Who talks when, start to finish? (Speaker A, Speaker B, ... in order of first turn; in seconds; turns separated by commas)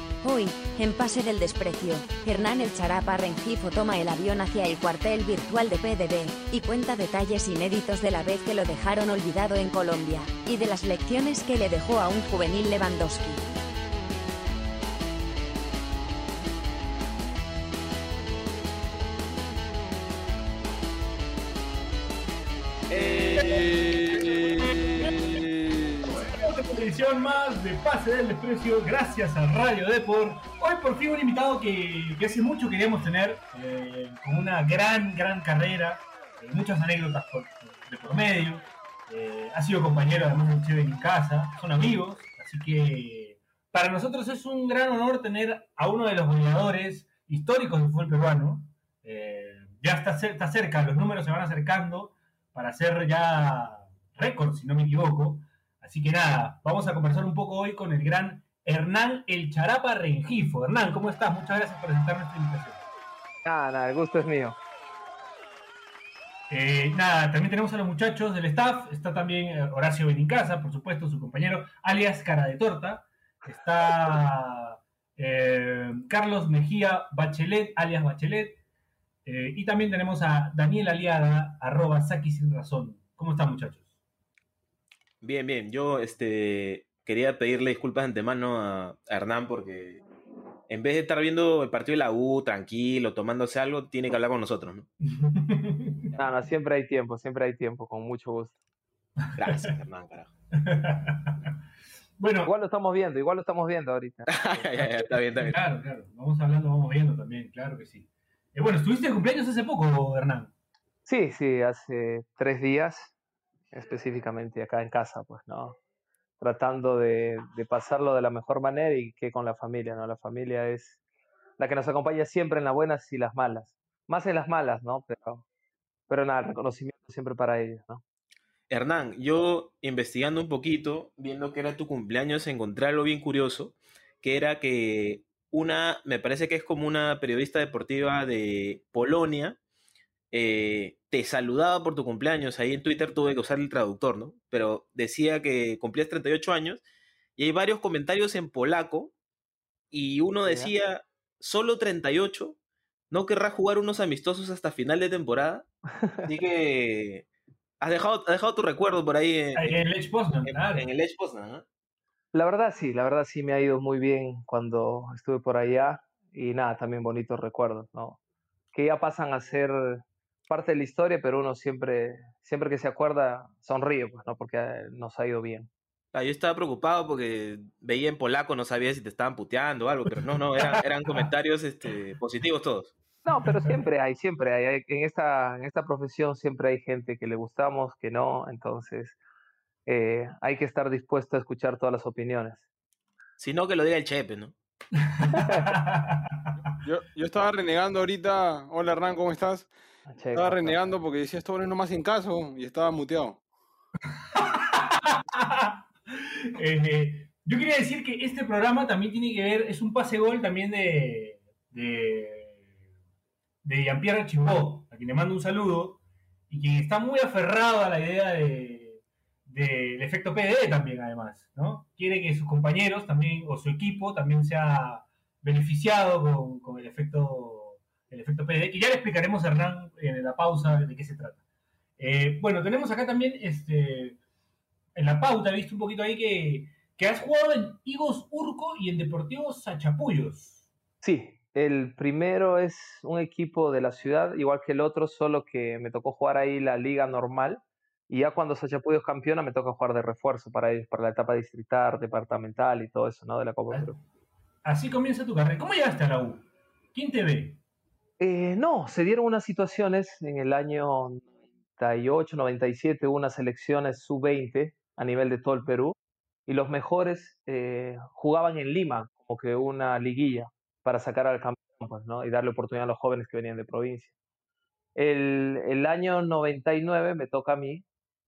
Speaker A: 0.2-13.4, Speaker B: 22.9-24.8, Speaker C: 23.2-23.7, Speaker C: 24.8-25.3, Speaker D: 25.3-25.8, Speaker C: 26.2-62.8, Speaker E: 63.4-64.6, Speaker C: 66.5-78.6, Speaker C: 79.2-83.8, Speaker B: 85.2-90.0, Speaker B: 90.7-94.9, Speaker C: 95.0-96.1, Speaker E: 96.2-98.5, Speaker C: 99.3-99.6, Speaker B: 99.3-100.3, Speaker C: 100.5-101.5, Speaker C: 102.2-102.5, Speaker E: 102.4-105.3, Speaker B: 104.3-105.6, Speaker C: 105.3-110.5, Speaker E: 111.0-113.1, Speaker E: 113.7-115.8, Speaker E: 116.4-121.0, Speaker E: 121.6-125.4, Speaker E: 126.1-128.0, Speaker B: 128.7-139.6, Speaker B: 140.3-146.8, Speaker B: 147.4-149.1, Speaker B: 149.9-152.6, Speaker E: 150.4-150.7, Speaker B: 153.1-155.7, Speaker E: 156.0-156.3, Speaker B: 156.2-157.2, Speaker B: 157.8-159.8, Speaker C: 159.5-160.9, Speaker B: 160.4-161.6, Speaker E: 162.3-168.2, Speaker E: 168.7-175.7, Speaker B: 176.1-182.9, Speaker E: 183.2-189.2, Speaker E: 189.8-192.6, Speaker B: 193.4-194.5, Speaker E: 195.3-195.8, Speaker C: 195.3-196.4, Speaker D: 196.8-199.7, Speaker E: 200.1-200.8, Speaker D: 200.3-203.4, Speaker C: 204.2-212.6, Speaker C: 213.6-231.4, Speaker C: 232.0-234.2, Speaker C: 234.9-240.6, Speaker E: 241.0-253.9, Speaker C: 254.6-257.6, Speaker E: 258.2-261.2, Speaker E: 261.8-265.9, Speaker E: 266.5-274.1, Speaker E: 274.9-277.8